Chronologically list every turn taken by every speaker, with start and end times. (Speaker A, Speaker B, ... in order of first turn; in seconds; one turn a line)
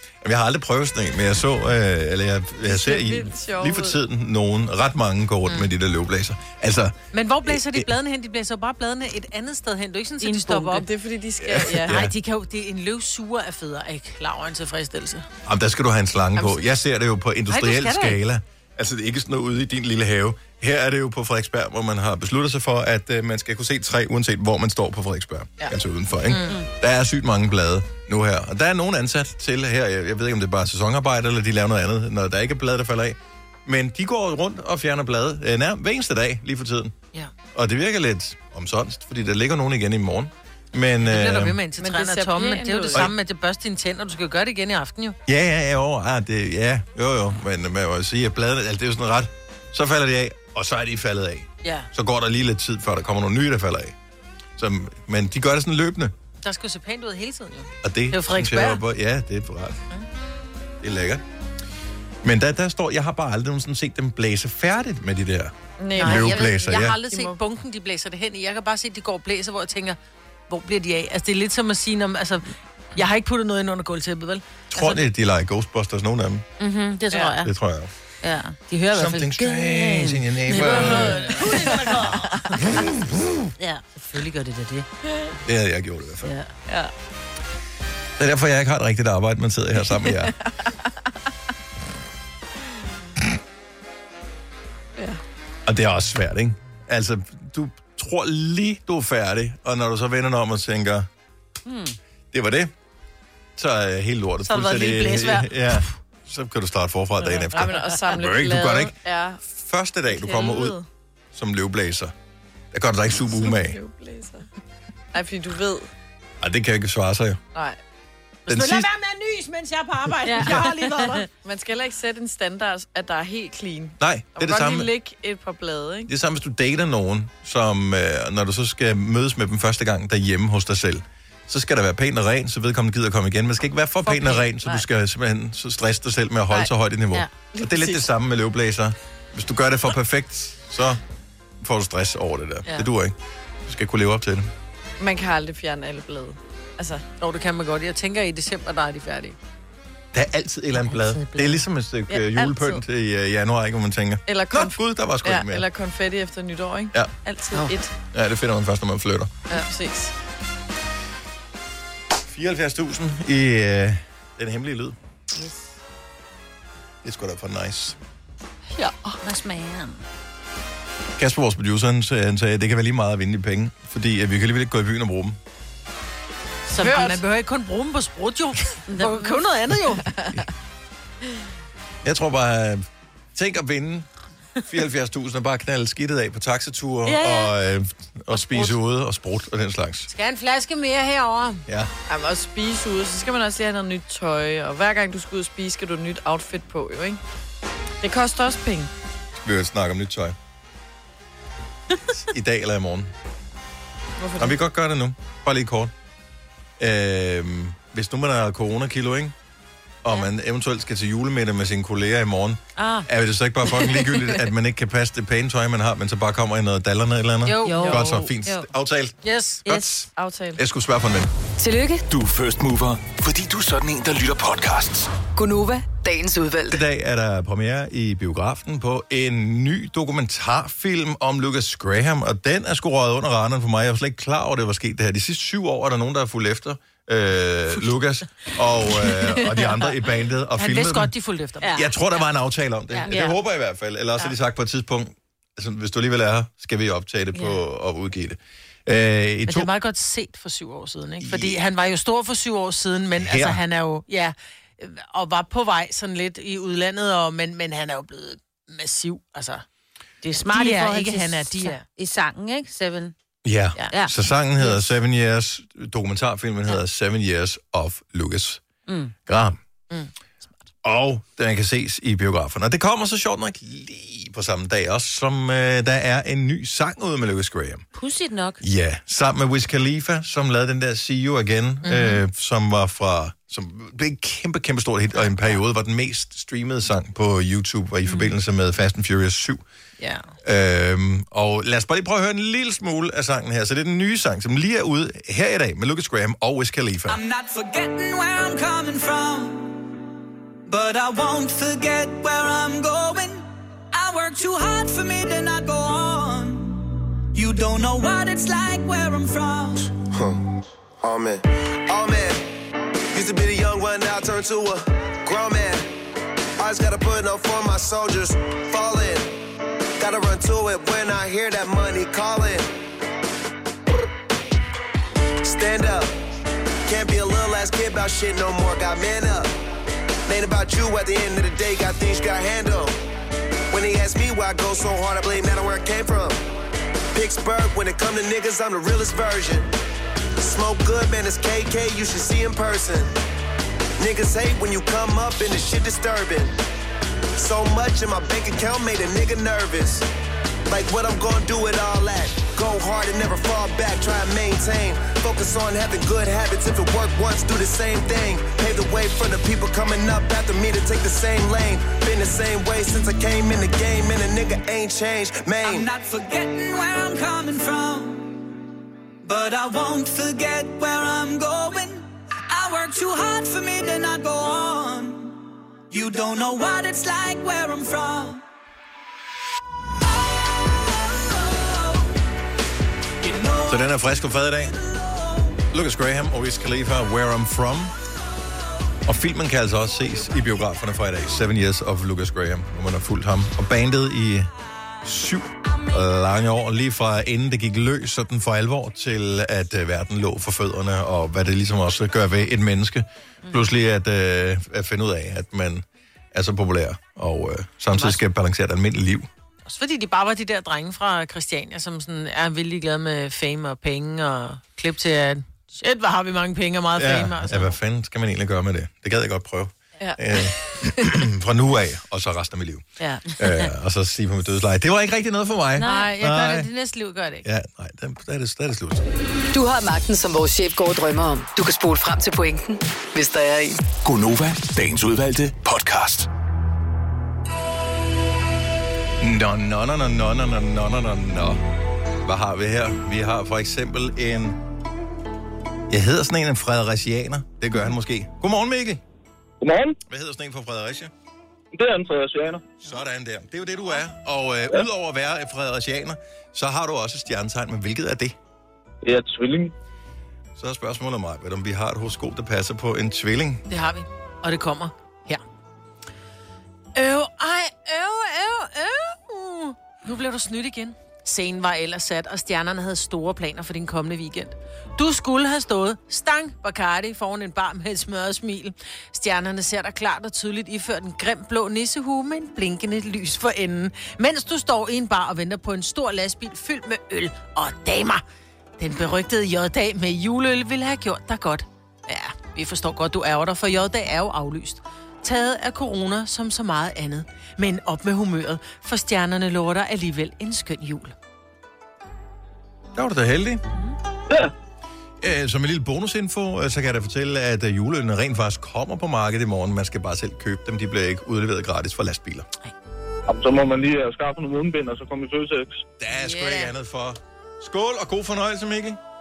Speaker A: 0.2-6.9
Speaker B: 2.6-4.0
Speaker C: 7.1-10.9
Speaker A: 7.5-7.8
Speaker D: 10.3-10.7
Speaker B: 10.5-12.0
Speaker A: 11.4-12.1
Speaker C: 11.8-15.3
Speaker A: 15.4-36.9
Speaker C: 17.5-18.2
Speaker C: 26.3-26.6
Speaker A: 37.5-41.6
Speaker C: 41.0-45.2
Speaker B: 41.8-43.1
Speaker A: 45.3-54.0
Speaker C: 51.6-51.9
Speaker A: 54.6-56.1
Speaker C: 56.4-58.8
Speaker A: 57.8-59.8
Speaker A: 60.8-61.2
Speaker A: 62.2-67.0
Speaker B: 65.8-67.4
Speaker C: 66.0-70.0
Speaker C: 70.5-74.4
Speaker A: 74.7-76.5
Speaker D: 76.6-77.5
Speaker C: 77.0-77.4
Speaker A: 77.4-77.9
Speaker D: 78.2-82.3
Speaker C: 78.7-79.2
Speaker A: 78.9-81.3
Speaker C: 80.5-82.3
Speaker A: 82.7-83.3
Speaker D: 83.6-84.9
Speaker A: 85.5-86.3
Speaker D: 86.3-86.9
Speaker A: 88.2-90.3
Speaker A: 95.7-101.1
Speaker D: 101.7-102.0
Speaker A: 102.3-102.7
Speaker A: 103.6-110.8
Speaker C: 104.4-105.9
Speaker B: 107.2-109.4
Speaker B: 110.1-110.8
Speaker A: 111.3-112.1
Speaker A: 112.7-113.8
Speaker B: 113.2-114.5
Speaker B: 115.1-115.9
Speaker A: 116.4-117.4
Speaker C: 118.5-121.3
Speaker A: 118.5-118.9
Speaker B: 120.2-120.7
Speaker B: 121.3-126.1
Speaker A: 124.0-124.9
Speaker A: 126.1-141.0
Speaker B: 134.0-134.8
Speaker B: 137.6-137.8
Speaker A: 141.6-144.5
Speaker B: 145.0-147.0
Speaker C: 147.2-149.4
Speaker A: 150.1-155.7
Speaker D: 150.7-151.7
Speaker B: 152.1-152.8
Speaker B: 154.3-157.9
Speaker A: 158.1-159.5
Speaker B: 159.5-160.1
Speaker A: 162.3-165.0
Speaker D: 165.3-165.7
Speaker A: 167.0-168.0
Speaker D: 169.2-170.0
Speaker A: 171.2-175.4
Speaker C: 176.7-180.1
Speaker B: 176.8-177.2
Speaker D: 178.9-179.3
Speaker B: 180.1-180.4
Speaker A: 182.0-184.1
Speaker A: 184.7-190.1
Speaker D: 187.0-187.5
Speaker C: 188.4-188.7
Speaker C: 190.1-191.6
Speaker B: 192.1-197.2
Speaker B: 198.0-198.9
Speaker A: 199.4-200.3
Speaker A: 202.3-203.1
Speaker B: 204.2-204.6
Speaker A: 204.4-205.9
Speaker A: 206.8-209.3
Speaker A: 210.0-221.3
Speaker D: 212.8-213.1
Speaker C: 217.4-218.2
Speaker D: 217.6-218.7
Speaker C: 219.2-219.7
Speaker B: 220.2-220.6
Speaker E: 221.6-222.0
Speaker F: 222.1-225.1
Speaker E: 225.3-226.8
Speaker A: 226.7-241.1
Speaker C: 239.0-239.7
Speaker C: 240.6-241.8
Speaker D: 241.6-241.9
Speaker A: 241.7-249.7
Speaker C: 242.9-243.2
Speaker D: 243.1-243.4
Speaker C: 249.5-259.6
Speaker A: 251.2-251.6
Speaker A: 253.2-253.6
Speaker D: 260.2-263.1
Speaker C: 260.5-261.8
Speaker A: 263.4-268.6
Speaker D: 263.9-264.1
Speaker D: 268.9-269.1
Speaker A: 269.2-269.6
Speaker A: 270.8-277.9
Speaker D: 277.9-278.6
Speaker A: 278.6-289.6
Speaker C: 281.8-282.2
Speaker C: 290.0-290.3
Speaker A: 290.4-297.2
Speaker G: 297.1-299.8
Speaker G: 300.7-309.9
Speaker H: 310.1-310.4
Speaker H: 311.0-312.5
Speaker H: 313.1-315.9
Speaker H: 316.6-319.4
Speaker H: 320.0-322.8
Speaker H: 325.4-326.2
Speaker H: 326.9-329.6
Speaker H: 330.2-333.0
Speaker H: 333.7-336.4
Speaker H: 337.1-339.7
Speaker H: 340.4-343.1
Speaker H: 344.0-346.6
Speaker H: 347.4-350.1
Speaker H: 350.7-365.9
Speaker G: 365.6-368.4
Speaker G: 369.2-378.4
Speaker G: 380.7-382.1
Speaker G: 383.2-383.9
Speaker A: 383.7-384.8
Speaker G: 384.6-385.6
Speaker A: 385.7-387.9
Speaker A: 389.1-394.5
Speaker A: 395.0-409.3
Speaker C: 409.6-417.7
Speaker A: 417.0-426.7
Speaker D: 425.8-426.1
Speaker C: 425.8-427.5
Speaker A: 427.4-429.1
Speaker E: 429.5-433.8
Speaker F: 434.1-436.3
Speaker A: 439.2-441.6
Speaker A: 442.2-444.6
Speaker A: 445.9-449.0
Speaker I: 449.6-450.0
Speaker A: 450.1-451.1
Speaker I: 451.7-452.7
Speaker A: 452.8-458.4
Speaker I: 459.0-459.7
Speaker A: 460.6-463.6
Speaker C: 463.7-465.4
Speaker C: 466.9-488.2
Speaker C: 488.8-501.1
Speaker A: 502.9-503.6
Speaker A: 505.2-512.5
Speaker I: 513.3-515.8
Speaker A: 516.0-519.0